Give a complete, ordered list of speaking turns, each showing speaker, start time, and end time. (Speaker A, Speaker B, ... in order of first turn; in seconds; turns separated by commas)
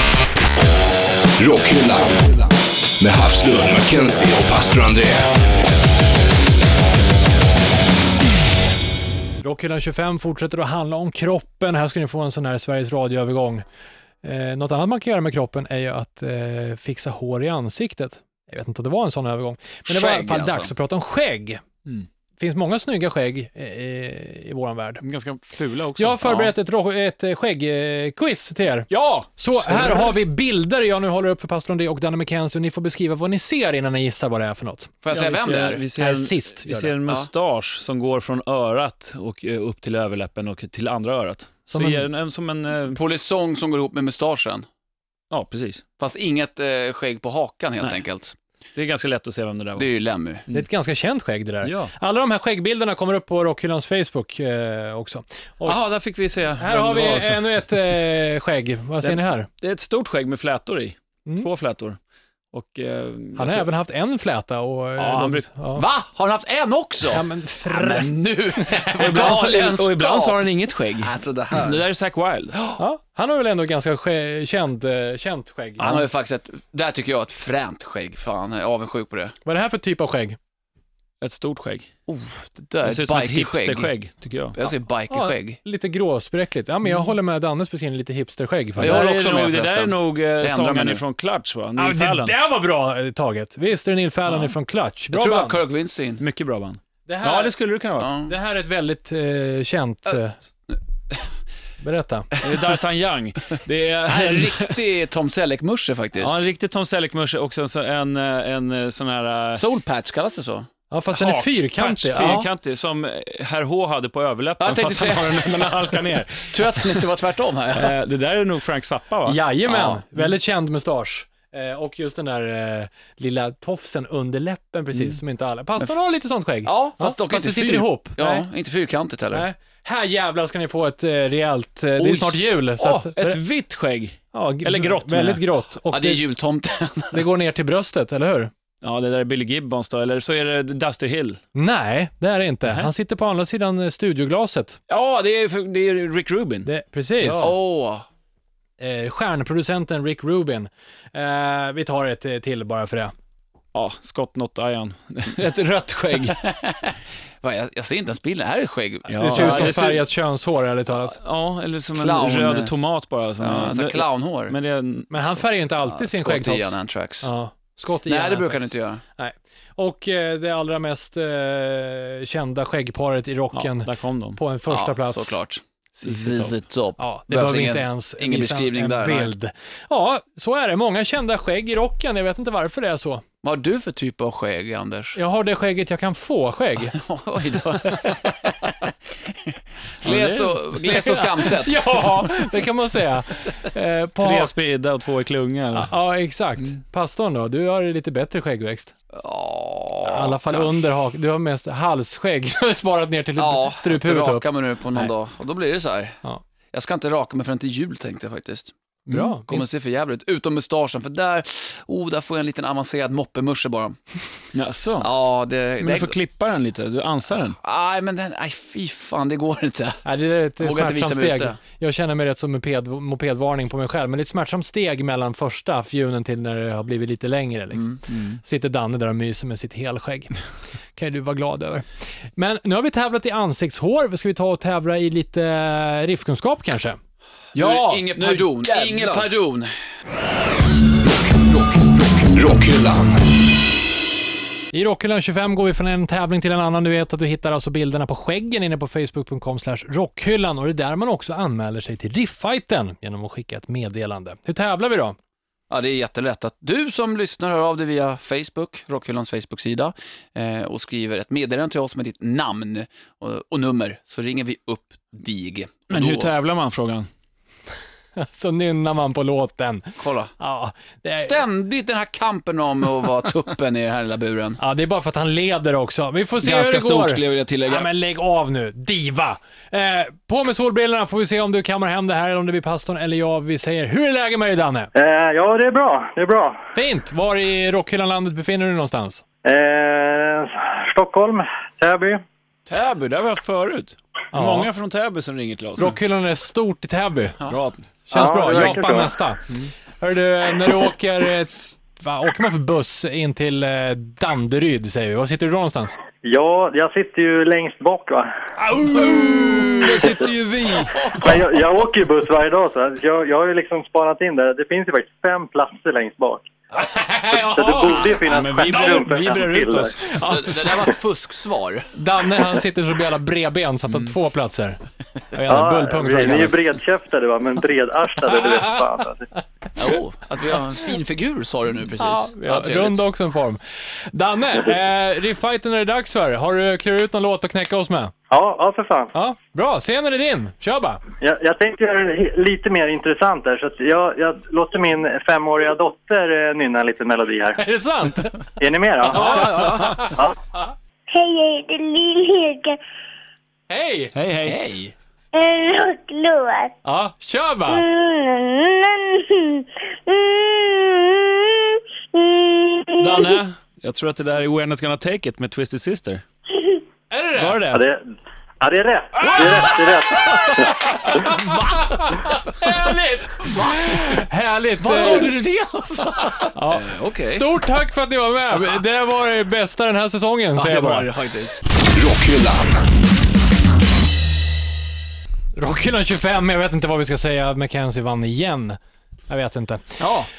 Speaker A: 1.4-5.3, Speaker B: 9.4-13.6, Speaker B: 14.2-21.6, Speaker C: 19.9-20.7, Speaker B: 22.4-25.0, Speaker D: 25.0-26.5, Speaker B: 26.0-35.0, Speaker D: 28.9-30.1, Speaker C: 35.0-35.8, Speaker D: 35.1-43.0, Speaker B: 35.9-36.9, Speaker B: 41.7-42.0, Speaker C: 42.9-44.6, Speaker D: 45.3-45.8, Speaker C: 46.0-48.3, Speaker D: 48.7-49.9, Speaker C: 49.8-50.4, Speaker B: 50.5-55.8, Speaker D: 51.6-51.9, Speaker D: 55.6-57.6, Speaker B: 56.6-59.5, Speaker D: 59.0-62.0, Speaker D: 62.5-63.6, Speaker B: 63.4-65.8, Speaker D: 65.0-65.5, Speaker C: 65.7-71.8, Speaker B: 67.1-68.2, Speaker B: 68.7-69.2, Speaker D: 69.0-72.5, Speaker B: 72.8-76.0, Speaker C: 75.8-79.3, Speaker B: 79.4-80.4, Speaker D: 81.2-81.9, Speaker C: 82.1-83.9, Speaker D: 82.8-84.6, Speaker C: 84.5-85.6, Speaker B: 85.1-89.0, Speaker C: 88.8-91.0, Speaker D: 88.8-92.3, Speaker B: 91.8-95.6, Speaker C: 95.1-96.2, Speaker D: 96.2-98.1, Speaker B: 97.1-97.5, Speaker C: 98.0-98.3, Speaker B: 98.2-100.3, Speaker C: 100.7-101.2, Speaker B: 101.8-102.3, Speaker D: 102.4-104.8, Speaker C: 104.1-106.4, Speaker D: 106.2-109.6, Speaker C: 109.5-110.7, Speaker B: 110.9-112.4, Speaker D: 111.1-117.0, Speaker C: 112.1-112.5, Speaker C: 114.6-117.9, Speaker D: 117.7-119.4, Speaker B: 119.3-128.4, Speaker C: 119.7-120.0, Speaker C: 126.6-129.4, Speaker B: 129.3-133.4, Speaker D: 132.0-135.4, Speaker B: 134.3-136.2, Speaker C: 135.9-137.2, Speaker B: 137.1-138.5, Speaker D: 138.8-141.4, Speaker B: 141.5-144.8, Speaker D: 144.9-146.7, Speaker B: 146.6-147.5, Speaker D: 147.2-147.5, Speaker C: 147.4-148.1, Speaker B: 148.8-153.1, Speaker D: 153.7-156.4, Speaker C: 156.3-160.0, Speaker D: 159.1-160.0, Speaker B: 159.2-161.2, Speaker D: 161.1-165.1, Speaker C: 161.9-162.7, Speaker C: 163.4-164.6, Speaker B: 165.1-175.4, Speaker C: 165.8-167.3, Speaker C: 168.1-169.0, Speaker D: 173.5-174.4, Speaker C: 174.7-179.3, Speaker D: 175.9-176.6, Speaker B: 177.0-183.2, Speaker C: 183.4-185.2, Speaker B: 185.2-187.0, Speaker C: 186.9-191.9, Speaker B: 190.1-194.5, Speaker D: 190.1-190.5, Speaker D: 194.2-195.9, Speaker B: 195.7-198.9, Speaker C: 199.1-200.8, Speaker B: 200.0-205.1, Speaker C: 203.4-206.2, Speaker C: 206.7-208.7, Speaker B: 209.1-209.6, Speaker C: 209.5-214.0, Speaker D: 214.5-215.1, Speaker C: 215.0-216.1, Speaker D: 215.8-217.6, Speaker C: 217.6-220.0, Speaker B: 220.0-230.3, Speaker C: 220.6-221.6, Speaker C: 227.7-228.0, Speaker D: 228.1-228.4, Speaker B: 230.9-237.0, Speaker C: 237.5-239.7, Speaker D: 237.6-239.3, Speaker A: 241.3-243.2, Speaker B: 244.7-255.2, Speaker C: 255.7-266.3, Speaker D: 265.9-267.1, Speaker B: 268.2-271.4, Speaker C: 270.0-270.3, Speaker C: 271.1-274.6, Speaker B: 274.6-284.9, Speaker D: 276.4-277.9, Speaker E: 284.9-286.6, Speaker B: 286.7-289.2, Speaker E: 289.4-292.2, Speaker D: 292.7-295.9, Speaker B: 294.3-294.7, Speaker B: 295.8-297.5, Speaker D: 297.5-297.8, Speaker B: 298.1-299.5, Speaker E: 298.1-299.1, Speaker B: 300.0-306.0, Speaker E: 306.2-308.3, Speaker D: 308.6-311.4, Speaker E: 309.8-310.3, Speaker E: 311.1-316.5, Speaker B: 316.7-318.1, Speaker E: 317.5-320.1, Speaker D: 317.8-320.4, Speaker C: 320.1-321.9, Speaker B: 321.9-324.8, Speaker B: 325.3-326.6, Speaker E: 325.5-329.2, Speaker B: 328.3-328.8, Speaker C: 329.8-333.0, Speaker B: 332.0-338.1, Speaker E: 338.3-339.1, Speaker B: 339.1-341.0, Speaker E: 341.2-347.6, Speaker B: 347.6-348.5, Speaker E: 348.6-349.6, Speaker B: 349.1-350.2, Speaker C: 349.1-350.1, Speaker F: 351.1-352.8, Speaker B: 353.7-354.1, Speaker D: 354.1-354.7, Speaker C: 354.4-354.9, Speaker F: 355.3-356.7, Speaker B: 356.8-357.8, Speaker F: 357.7-363.4, Speaker D: 363.0-366.2, Speaker B: 367.1-367.6, Speaker D: 367.4-367.8, Speaker E: 367.7-370.8, Speaker B: 369.3-375.4, Speaker C: 371.3-374.1, Speaker C: 374.8-377.4, Speaker B: 376.5-381.1, Speaker C: 380.6-381.6, Speaker A: 381.7-382.9, Speaker B: 385.6-388.8, Speaker B: 389.3-390.0